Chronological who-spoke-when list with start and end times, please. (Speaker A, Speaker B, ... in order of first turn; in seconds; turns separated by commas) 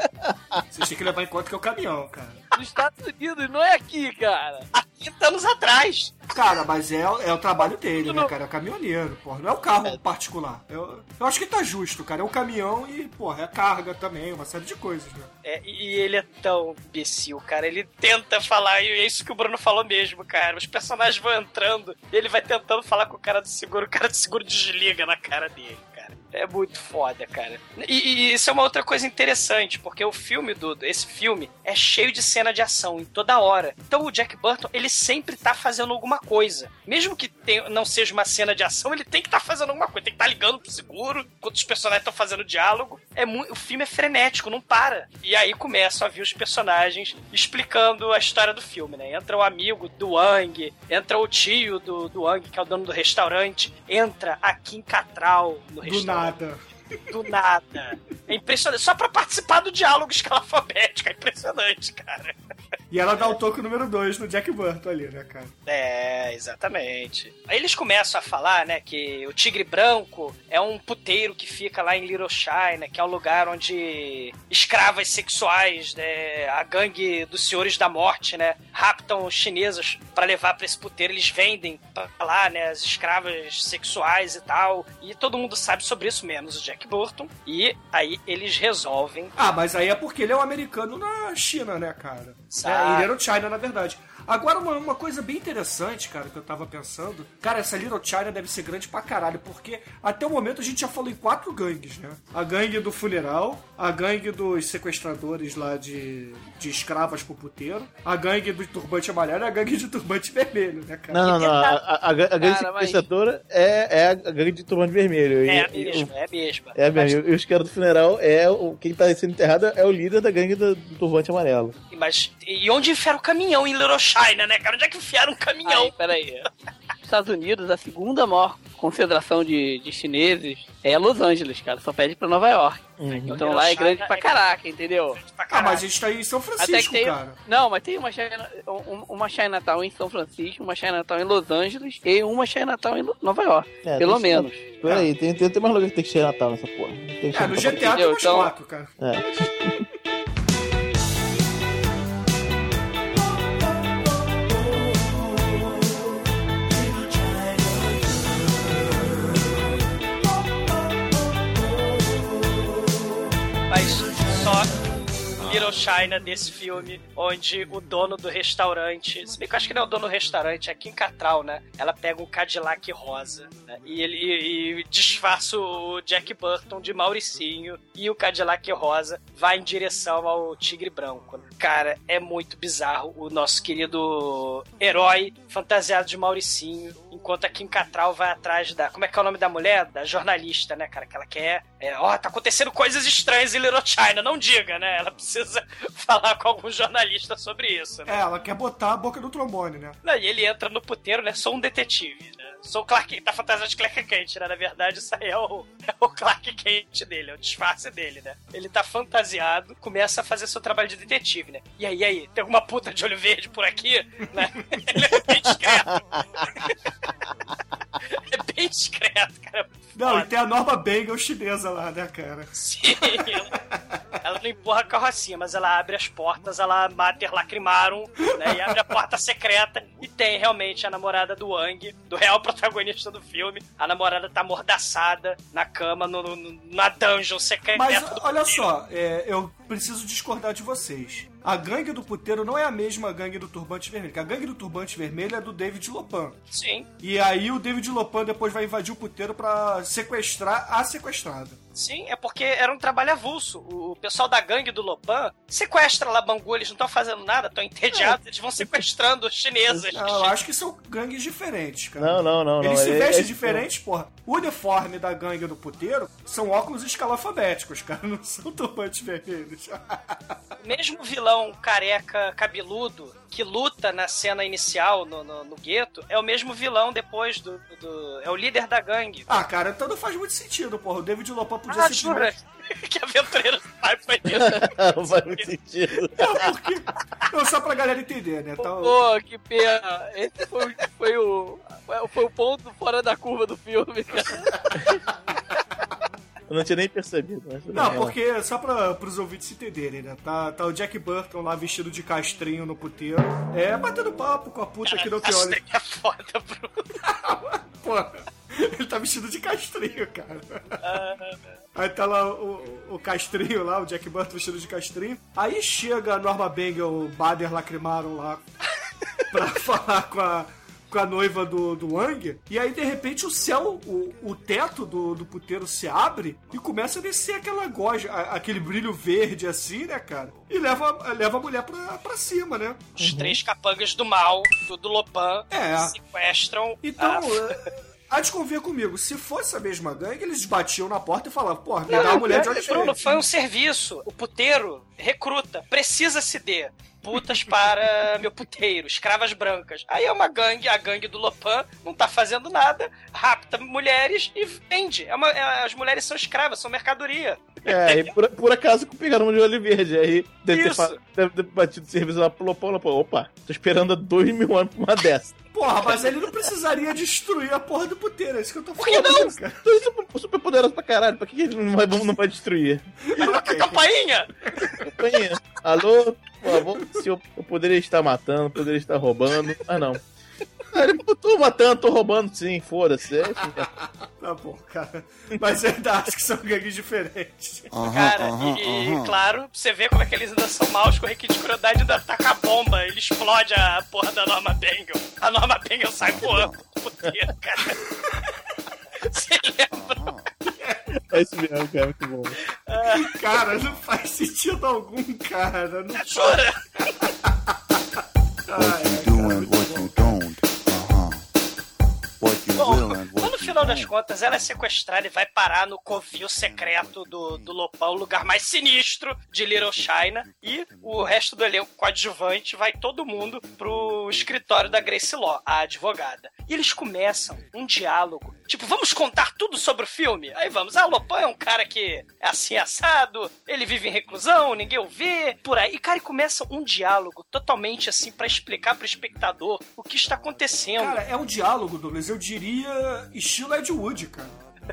Speaker A: 0.2-0.6, Speaker B: 0.7-2.4, Speaker C: 2.5-4.7, Speaker D: 4.7-6.2, Speaker B: 6.3-15.3, Speaker C: 8.0-8.3, Speaker D: 15.4-56.3, Speaker B: 55.8-56.6, Speaker D: 57.1-62.4, Speaker B: 62.9-65.5, Speaker D: 65.7-89.3, Speaker B: 89.3-111.4, Speaker D: 92.5-93.1, Speaker A: 111.1-116.1, Speaker C: 112.4-113.0, Speaker D: 115.5-117.2, Speaker A: 116.8-121.8, Speaker D: 121.9-125.9, Speaker C: 125.7-126.5, Speaker C: 127.0-135.2, Speaker A: 133.0-133.4, Speaker D: 133.3-134.4, Speaker D: 135.2-135.8, Speaker B: 135.5-137.3, Speaker C: 136.6-144.8, Speaker A: 143.8-148.0, Speaker B: 147.3-149.5, Speaker C: 147.9-148.5, Speaker A: 149.0-149.8, Speaker D: 163.7-164.8, Speaker D: 165.4-198.2, Speaker B: 198.1-200.0, Speaker D: 200.0-216.7, Speaker A: 215.6-216.7, Speaker D: 218.1-220.3, Speaker B: 219.9-223.8, Speaker D: 222.5-223.5, Speaker D: 224.2-238.7, Speaker B: 228.4-228.8, Speaker B: 237.7-246.4, Speaker D: 246.5-246.9, Speaker B: 247.0-251.6, Speaker D: 251.7-260.3, Speaker A: 257.9-258.8, Speaker B: 259.8-270.2, Speaker A: 262.0-263.6, Speaker D: 270.6-279.4, Speaker B: 279.3-282.3, Speaker D: 281.7-285.5, Speaker A: 284.3-286.5, Speaker B: 286.2-289.0, Speaker C: 288.6-294.6, Speaker A: 296.5-298.1, Speaker B: 297.7-305.6, Speaker D: 304.9-306.9, Speaker B: 307.0-310.8, Speaker D: 310.8-311.4, Speaker B: 311.7-318.4, Speaker B: 319.3-332.9, Speaker D: 333.0-337.6, Speaker A: 333.0-333.4, Speaker B: 335.5-335.9, Speaker B: 336.8-343.2, Speaker D: 341.9-358.1, Speaker A: 357.6-365.4, Speaker D: 360.5-361.0, Speaker B: 365.5-369.6, Speaker A: 368.8-372.8, Speaker B: 373.1-373.8, Speaker D: 373.2-374.3, Speaker A: 374.9-380.0, Speaker A: 380.7-383.7, Speaker B: 384.2-387.7, Speaker E: 387.7-389.2, Speaker D: 387.8-397.8, Speaker E: 396.0-396.6, Speaker D: 399.1-400.0, Speaker E: 399.7-400.3, Speaker B: 400.4-400.8, Speaker A: 401.1-402.4, Speaker D: 402.7-403.1, Speaker B: 402.8-406.4, Speaker D: 405.9-406.6, Speaker B: 408.5-410.2, Speaker E: 408.6-411.2, Speaker E: 412.2-413.9, Speaker D: 412.5-441.0, Speaker E: 416.7-417.3, Speaker B: 440.8-444.3